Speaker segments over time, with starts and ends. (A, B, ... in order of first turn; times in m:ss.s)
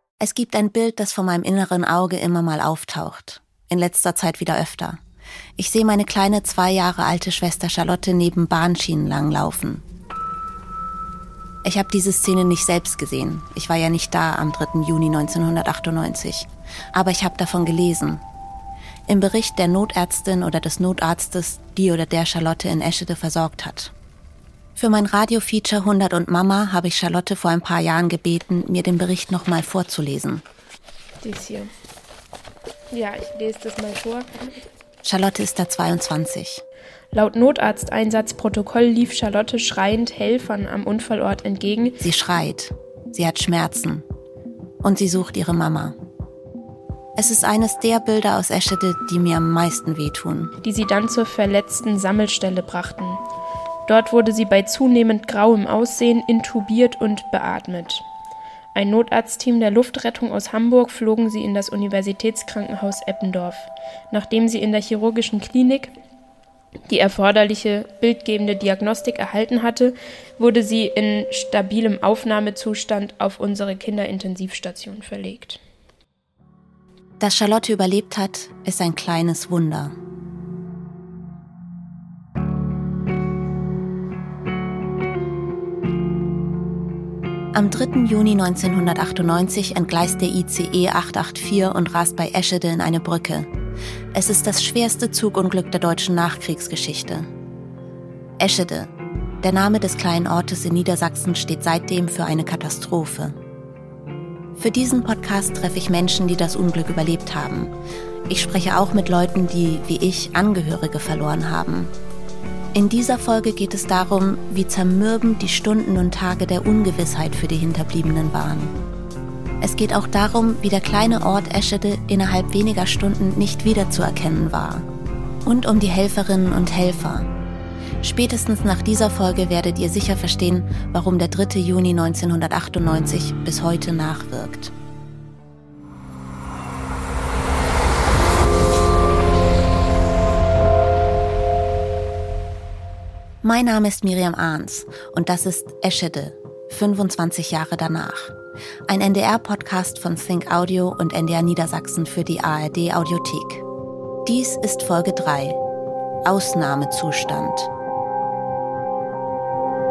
0:00.2-0:05.0 A
0:05.6-0:09.8 A
0:11.6-0:18.2 A
0:19.1-0:23.9 A
0:24.8-0:30.4 A
0:31.2-0:31.7 B
0:32.9-0:34.5 B
0:35.0-0:36.6 A
0:37.1-0:42.0 B
0:42.0-0:44.0 A
0:44.8-0:46.0 A
0:47.2-0:50.5 A
0:50.6-0:53.2 B
0:53.8-0:58.0 B
0:58.7-1:05.9 B
1:06.9-1:15.6 B
1:17.2-1:19.9 A
1:27.5-1:33.5 A
1:34.1-1:37.3 A
1:38.4-1:38.9 A
1:39.4-1:43.4 A
1:44.6-1:47.7 A
1:48.3-1:51.9 A
1:52.7-1:58.7 A
1:59.6-2:04.8 A
2:05.4-2:07.3 A
2:08.0-2:14.7 A
2:23.4-2:28.3 A
2:28.9-2:33.6 A
2:34.2-2:35.6 A
2:36.2-2:37.7 A